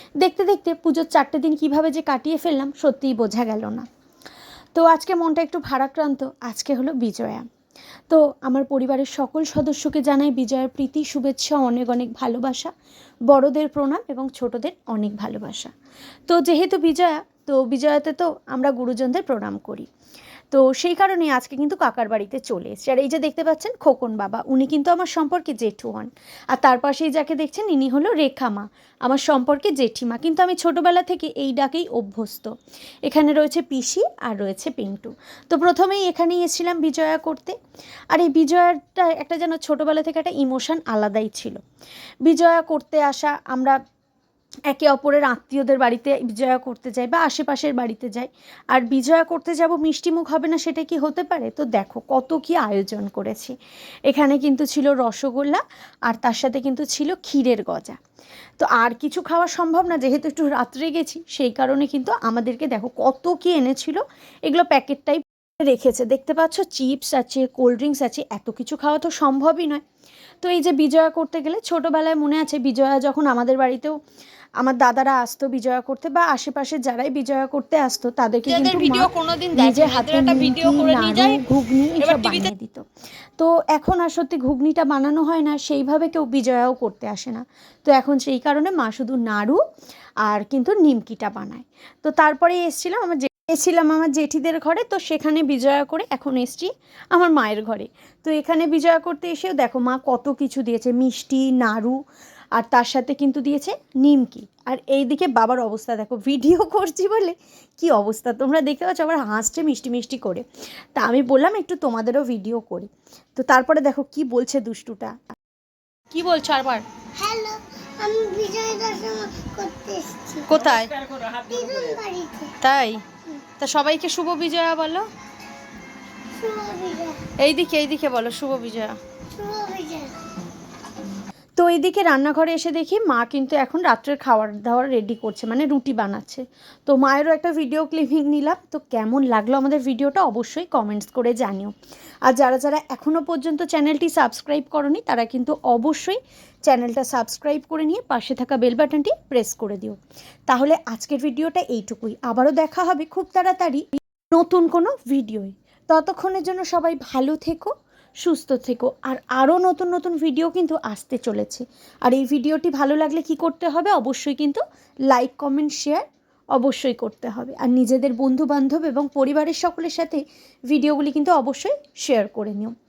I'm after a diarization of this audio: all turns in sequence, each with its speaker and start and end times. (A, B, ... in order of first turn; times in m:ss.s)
0:00.2-0:03.9 A
0:04.7-0:07.4 A
0:08.1-0:12.7 A
0:13.3-0:15.7 A
0:16.3-0:19.9 A
0:20.5-0:32.5 A
0:33.0-0:37.6 A
0:38.1-0:41.6 A
0:42.2-0:43.8 A
0:44.7-0:53.5 A
0:54.1-0:58.0 A
0:58.6-1:09.8 A
1:10.4-1:14.0 A
1:14.6-1:22.8 A
1:18.4-1:21.4 B
1:22.0-1:22.5 B
1:23.4-1:29.6 A
1:30.2-1:42.0 A
1:42.5-1:55.2 A
1:56.1-1:56.8 A
1:57.1-2:00.5 C
2:00.5-2:01.0 B
2:01.3-2:02.6 C
2:02.6-2:03.0 B
2:03.6-2:05.1 B
2:06.4-2:07.3 C
2:07.4-2:09.0 B
2:09.3-2:10.2 C
2:11.6-2:21.7 A
2:22.2-2:52.7 A